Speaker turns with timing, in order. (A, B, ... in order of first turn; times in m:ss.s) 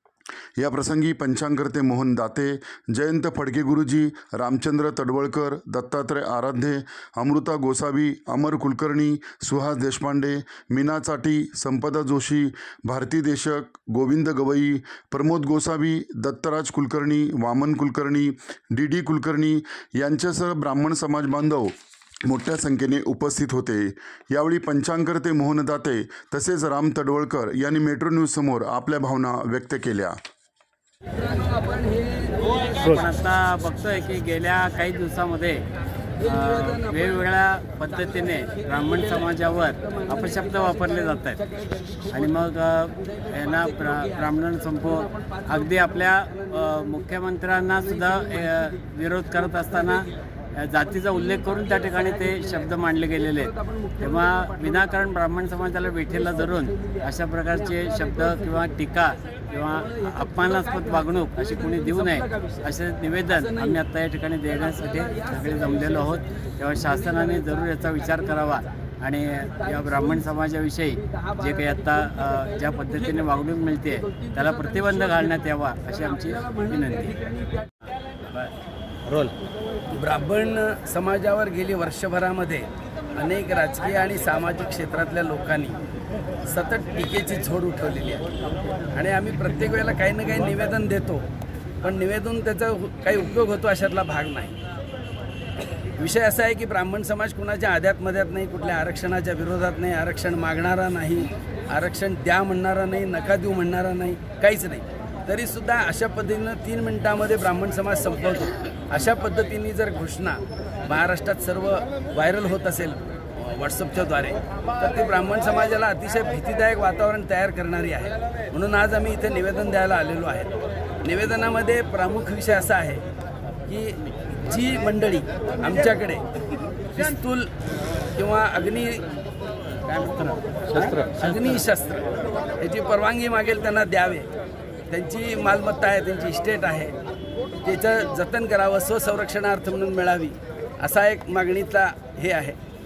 0:00.6-0:21.7 A
0:22.2-0:30.2 A
0:31.2-0:32.8 B
0:32.7-0:35.7 C
0:36.2-0:41.4 C
0:36.2-0:37.2 B
0:38.3-0:42.2 B
0:42.1-1:17.2 C
0:43.1-0:44.3 B
0:44.9-0:46.8 B
0:47.9-0:48.7 B
0:51.0-0:52.7 B
0:53.5-0:54.8 B
0:57.7-0:58.3 B
0:59.9-1:02.7 B
1:03.4-1:03.8 B
1:04.8-1:06.0 B
1:07.1-1:07.4 B
1:09.7-1:10.2 B
1:11.3-1:13.1 B
1:14.1-1:15.4 B
1:16.2-1:17.7 B
1:19.0-1:19.3 C
1:19.9-1:25.8 B
1:26.4-1:31.3 B
1:31.8-1:34.6 B
1:36.0-2:03.0 B
2:03.7-2:06.2 B
2:06.9-2:07.5 B
2:08.2-2:09.1 B
2:09.9-2:14.3 B
2:14.9-2:16.9 B
2:17.6-2:22.6 B